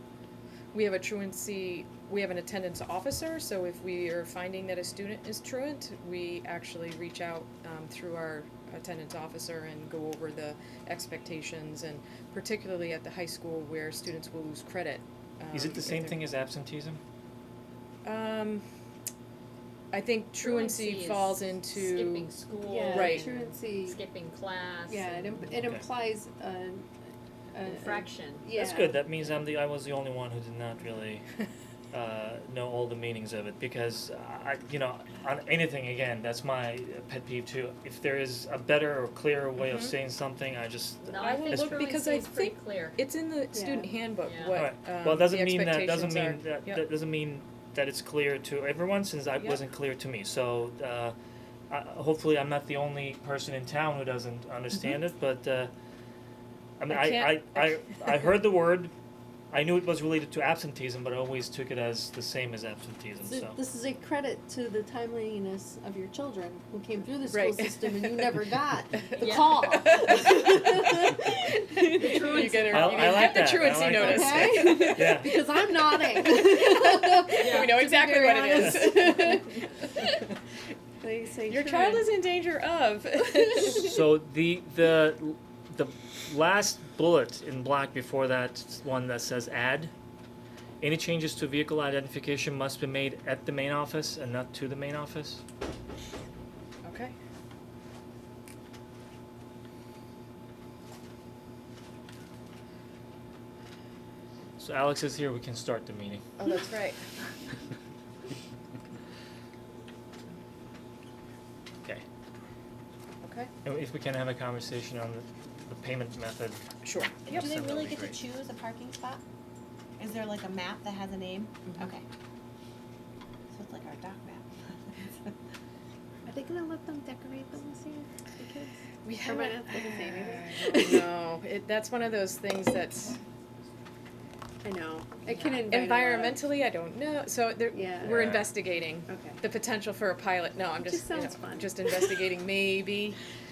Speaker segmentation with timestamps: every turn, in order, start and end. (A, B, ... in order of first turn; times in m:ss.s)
0:00.7-0:16.2 A
0:15.5-0:17.0 B
0:18.0-0:18.7 A
0:19.9-0:22.3 A
0:20.4-0:25.5 C
0:22.6-0:24.0 D
0:22.9-0:23.3 A
0:24.9-0:26.9 D
0:25.6-0:25.9 B
0:27.5-0:29.0 D
0:27.6-0:28.5 C
0:28.6-0:31.3 B
0:31.9-0:41.9 B
0:39.6-0:39.9 A
0:41.0-0:43.0 C
0:41.1-0:46.8 A
0:43.5-0:43.9 D
0:44.2-0:44.6 C
0:44.5-0:51.2 B
0:51.7-0:55.7 B
0:56.8-0:58.9 B
0:56.9-0:58.3 A
0:59.5-1:03.6 B
1:03.2-1:10.9 D
1:07.3-1:08.4 A
1:09.0-1:20.3 A
1:09.2-1:10.1 C
1:12.0-1:13.3 C
1:12.7-1:15.3 B
1:13.6-1:19.6 D
1:17.4-1:17.8 C
1:18.6-1:19.1 B
1:21.0-1:22.1 D
1:21.5-1:24.0 A
1:23.7-1:29.9 B
1:30.8-1:35.4 B
1:36.8-1:37.2 A
1:44.6-1:46.2 B
1:46.4-1:47.0 A
1:53.2-1:53.5 A
1:53.6-1:56.7 B
1:56.8-1:57.5 A
1:57.2-1:59.2 E
1:57.3-1:58.2 B
2:00.0-2:02.0 E
2:03.5-2:05.3 E
2:06.3-2:08.7 D
2:09.0-2:13.2 A
2:09.2-2:11.1 D
2:14.6-2:16.4 D
2:15.3-2:15.6 C
2:15.5-2:23.2 A
2:17.7-2:18.2 D
2:18.0-2:18.5 B
2:19.1-2:19.4 D
2:20.8-2:22.1 D